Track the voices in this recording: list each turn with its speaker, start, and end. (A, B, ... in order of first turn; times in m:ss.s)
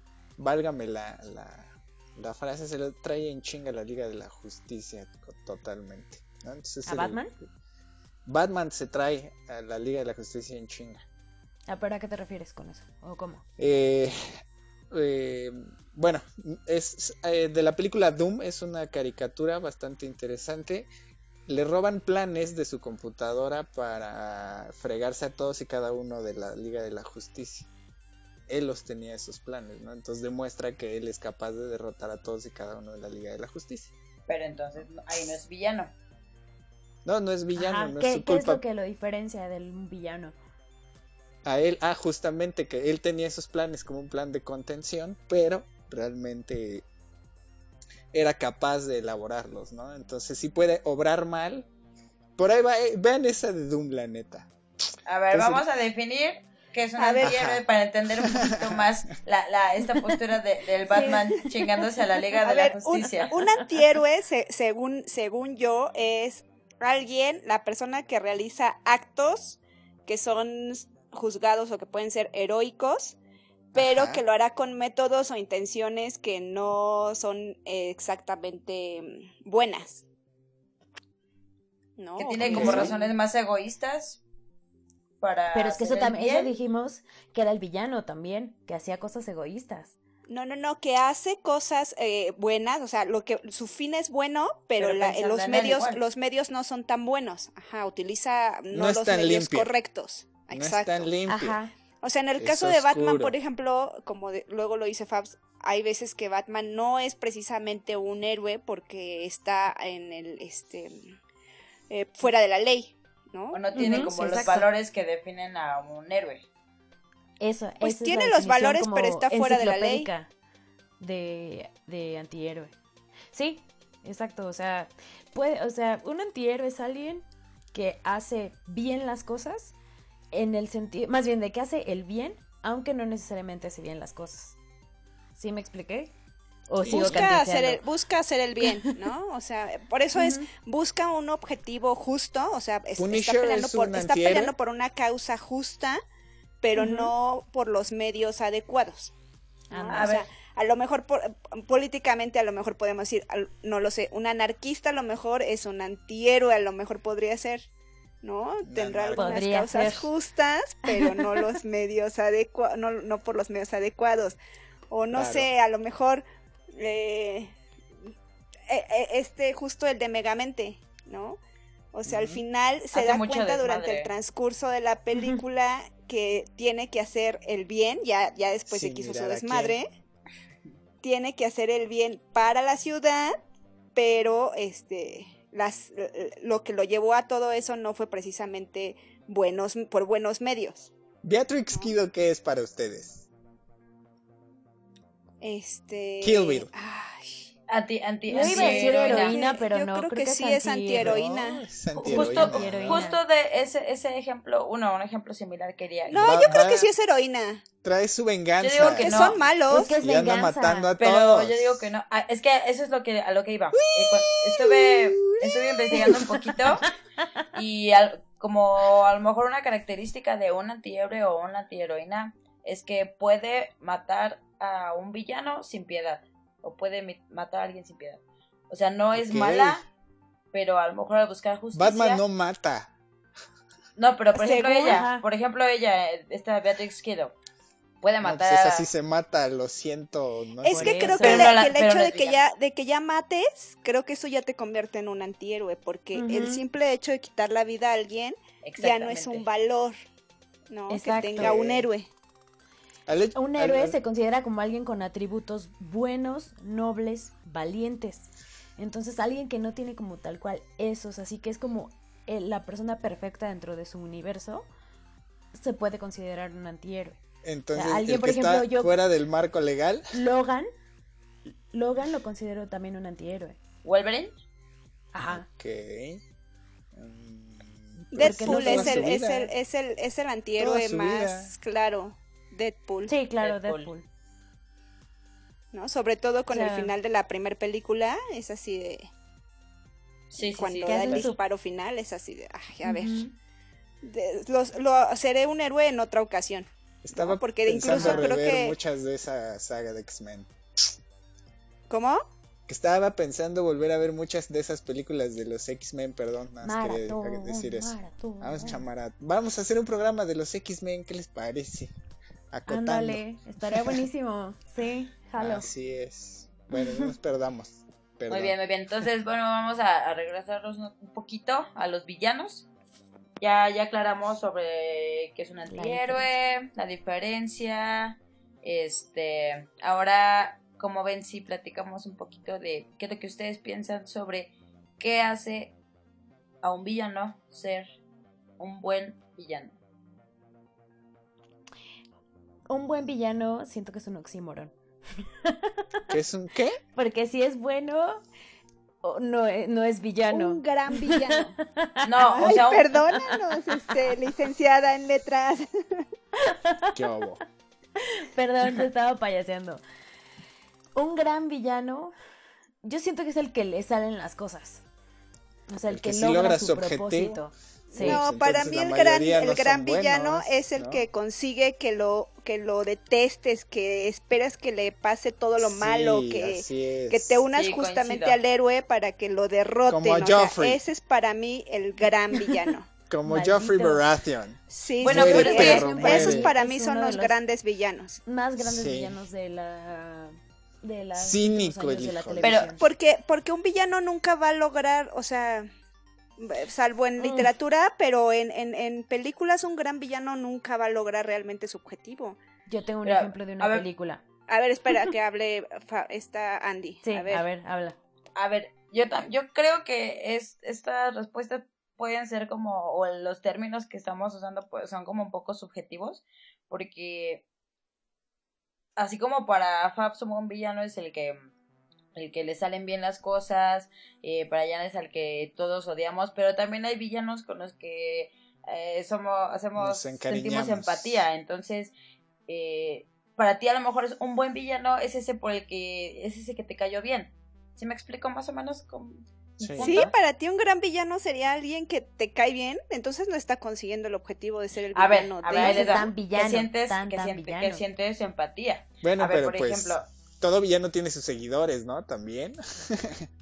0:00.4-0:07.5 A
0:06.9-0:07.3 B
0:08.3-0:11.0 A
0:11.7-0:13.4 B
0:13.6-0:14.4 A
0:14.9-0:20.9 A
0:21.5-0:27.7 A
0:28.5-0:33.9 A
0:34.3-0:35.9 C
0:37.0-0:38.6 A
0:37.6-0:40.3 B
0:41.4-0:46.8 A
0:48.1-0:51.7 A
0:52.4-0:54.5 A
0:55.0-1:03.4 C
0:55.3-0:55.6 A
0:57.0-0:57.3 D
0:57.2-0:57.6 A
0:58.2-0:58.9 A
1:00.9-1:01.5 B
1:00.9-1:01.4 D
1:02.4-1:13.2 D
1:13.7-1:20.0 D
1:13.8-1:14.2 A
1:22.0-1:23.0 D
1:22.2-1:24.2 C
1:22.5-1:22.9 B
1:22.5-1:22.8 A
1:25.2-1:26.5 C
1:25.5-1:30.0 B
1:30.3-1:41.1 D
1:34.8-1:36.0 C
1:38.7-1:39.7 A
1:40.5-1:41.6 A
1:41.3-1:41.7 B
1:42.0-1:51.1 D
1:42.4-1:43.4 A
1:51.9-1:54.1 D
1:53.5-1:56.4 C
1:53.8-1:54.7 B
1:57.4-2:00.3 B
1:57.8-2:00.1 D
2:01.0-2:02.7 B
2:03.3-2:09.7 B
2:10.3-2:14.6 B
2:15.4-2:16.1 B
2:16.7-2:17.8 B
2:16.8-2:17.3 A
2:16.9-2:26.0 D
2:20.2-2:20.5 B
2:23.0-2:24.5 A
2:26.6-2:29.1 D
2:26.8-2:27.1 B
2:29.7-2:30.1 B
2:29.7-2:37.7 D
2:29.9-2:30.2 C
2:38.2-2:44.4 D
2:38.6-2:39.5 A
2:39.2-2:40.1 B
2:40.9-2:41.2 B
2:44.9-2:47.5 D
2:45.1-2:45.5 A
2:48.7-2:51.4 D
2:51.9-2:59.9 D
2:52.1-2:52.4 A
2:52.9-2:54.1 C
2:58.7-2:59.8 A
3:01.0-3:03.4 D
3:04.0-3:10.9 D
3:11.2-3:13.3 A
3:15.4-3:17.5 D
3:16.2-3:16.7 A
3:17.7-3:19.4 C
3:18.3-3:21.2 B
3:18.4-3:21.6 D
3:21.0-3:23.0 A
3:22.0-3:26.7 C
3:22.0-3:23.2 B
3:26.1-3:27.6 D
3:26.2-3:26.9 A
3:27.8-3:31.8 A
3:28.6-3:29.4 C
3:28.8-3:30.0 D
3:29.7-3:30.9 B
3:31.0-3:36.8 C
3:34.1-3:34.4 A
3:37.5-3:49.8 C
3:49.1-3:49.8 A
3:50.5-3:52.2 C
3:51.7-3:52.9 A
3:54.0-3:57.3 C
3:54.4-3:55.2 B
3:54.4-3:55.0 D
3:58.0-3:58.9 C
3:58.2-4:01.4 A
4:00.6-4:10.0 D
4:00.7-4:01.6 B
4:01.2-4:02.4 C
4:06.1-4:06.6 B
4:08.6-4:09.5 C
4:10.7-4:12.1 D
4:10.9-4:11.6 B
4:11.4-4:11.9 A
4:13.1-4:14.0 A
4:13.4-4:24.7 B
4:25.5-4:27.2 B
4:27.4-4:30.1 A
4:27.7-4:28.9 B
4:30.1-4:30.7 B
4:31.7-4:33.6 B
4:33.8-4:34.3 C
4:35.1-4:35.5 B
4:35.2-4:36.2 A
4:36.9-4:39.5 A
4:38.1-4:43.1 D
4:38.2-4:39.2 B
4:40.6-4:41.5 A
4:43.1-4:44.0 B
4:43.4-4:43.9 C
4:45.7-4:49.1 D
4:46.5-4:46.9 B
4:50.3-4:51.3 C
4:50.4-4:53.2 D
4:50.8-4:51.4 B
4:52.8-4:53.3 B
4:54.0-4:58.8 D
4:57.0-5:00.9 A
4:57.8-4:58.4 B
5:01.9-5:02.2 D
5:02.7-5:11.9 A
5:06.6-5:08.8 B
5:12.5-5:14.0 A
5:12.7-5:15.7 B
5:15.4-5:18.6 A
5:16.7-5:17.1 B
5:18.3-5:22.7 C
5:23.4-5:35.8 C
5:25.7-5:26.3 B
5:36.6-5:37.9 C
5:38.6-5:39.8 C
5:42.7-5:44.7 B
5:45.4-5:45.8 B
5:46.1-5:46.8 A
5:47.0-5:48.2 B
5:49.0-5:52.0 B
5:50.3-5:51.5 D
5:52.0-5:52.9 C
5:52.3-5:56.1 D
5:56.4-5:56.9 B
5:56.9-5:57.4 A
5:58.0-5:59.8 B
6:01.0-6:02.1 B
6:02.8-6:04.8 B
6:05.7-6:08.2 B
6:05.9-6:07.4 A
6:07.9-6:22.9 D
6:08.0-6:11.0 A
6:15.6-6:17.4 A
6:17.5-6:18.4 C
6:19.9-6:20.8 A
6:23.1-6:26.5 A
6:23.3-6:24.0 B
6:24.7-6:28.2 D
6:25.0-6:26.0 C
6:25.0-6:27.4 B
6:28.3-6:32.8 B
6:28.6-6:29.2 A
6:31.2-6:32.7 A
6:32.4-6:32.7 C
6:32.8-6:35.7 D
6:36.4-6:42.4 D
6:37.2-6:37.5 B
6:42.7-6:44.2 B
6:43.0-6:43.9 C
6:44.5-6:47.4 D
6:47.0-6:48.0 B
6:48.4-6:57.4 C
6:59.0-7:01.4 C
7:02.2-7:11.9 C
7:09.8-7:11.2 A
7:12.5-7:20.1 C
7:19.6-7:19.9 A
7:19.8-7:26.1 D
7:24.9-7:30.1 C
7:25.6-7:27.8 B
7:29.0-7:33.3 A